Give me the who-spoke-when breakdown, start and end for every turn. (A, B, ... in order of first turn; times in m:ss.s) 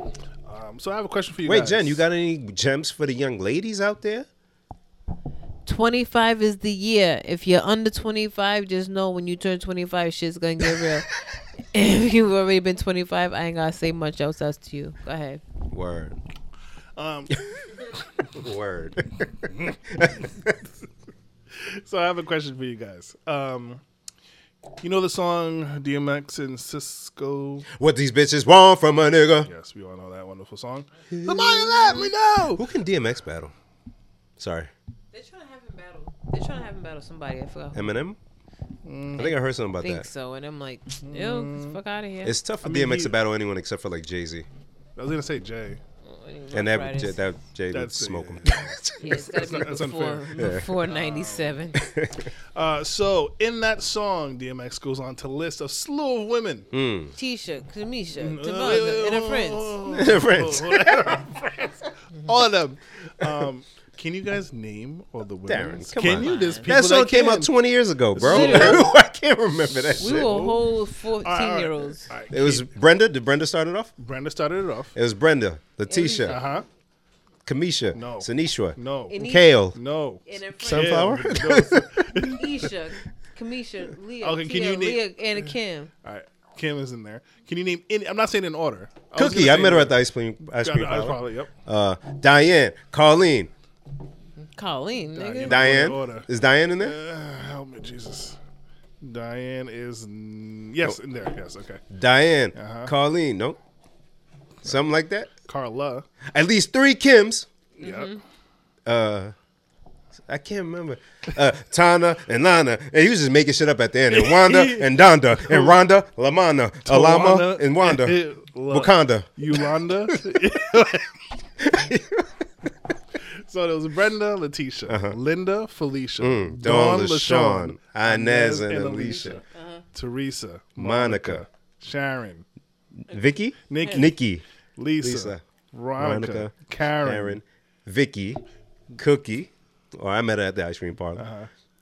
0:00.4-0:02.0 A
0:01.4-0:04.3 B
0:05.7-0:11.1 C
0:11.7-0:15.4 C
0:15.7-0:16.2 B
0:17.0-0:17.4 A
0:18.3-0:20.6 B
0:19.5-0:20.1 A
0:21.5-0:23.8 A
0:24.8-0:27.7 A
0:27.7-0:29.5 B
0:29.4-0:32.6 A
0:31.1-0:33.5 B
0:34.4-0:34.7 B
0:35.1-0:37.8 C
0:37.7-0:38.2 B
0:38.8-0:39.3 A
0:39.2-0:40.1 B
0:39.2-0:42.3 C
0:41.0-0:41.8 A
0:42.2-0:44.5 B
0:42.6-0:43.1 A
0:45.0-0:45.8 A
0:46.0-0:47.2 C
0:46.5-0:49.3 B
0:47.7-0:51.6 A
0:49.0-0:51.8 C
0:50.4-0:50.7 B
0:51.8-0:52.3 B
0:52.5-0:56.7 A
0:56.7-0:57.1 B
0:57.2-0:59.8 C
0:58.2-1:07.5 A
0:59.9-1:01.2 B
1:05.5-1:10.5 B
1:06.1-1:06.7 C
1:08.2-1:08.9 A
1:08.2-1:08.8 C
1:09.9-1:12.7 A
1:10.0-1:12.1 C
1:12.3-1:13.9 B
1:14.0-1:14.9 A
1:15.0-1:16.4 B
1:15.9-1:16.5 C
1:16.3-1:16.7 A
1:17.5-1:19.8 B
1:17.9-1:19.2 A
1:19.1-1:19.5 C
1:19.7-1:22.7 A
1:20.3-1:21.2 C
1:20.6-1:22.1 B
1:22.2-1:25.9 C
1:24.2-1:25.0 A
1:26.0-1:30.0 A
1:29.2-1:33.5 B
1:30.5-1:31.5 A
1:34.4-1:35.6 C
1:35.1-1:38.4 A
1:35.4-1:37.0 B
1:39.0-1:41.8 A
1:41.9-1:43.6 B
1:42.5-1:42.9 A
1:44.6-1:45.3 B
1:45.4-1:46.1 A
1:46.2-1:47.5 B
1:47.8-1:48.1 A
1:47.8-1:48.2 C
1:48.9-1:49.3 B
1:50.3-2:00.4 B
1:54.1-1:55.8 A
1:56.8-2:01.2 A
2:01.6-2:02.5 B
2:03.2-2:09.4 A
2:04.9-2:05.2 B
2:06.2-2:09.4 B
2:09.4-2:09.8 C
2:09.9-2:12.4 A
2:10.8-2:11.4 B
2:13.1-2:14.4 B
2:13.7-2:14.1 A
2:14.8-2:17.4 A
2:15.0-2:15.4 B
2:16.0-2:21.3 B
2:21.2-2:21.5 A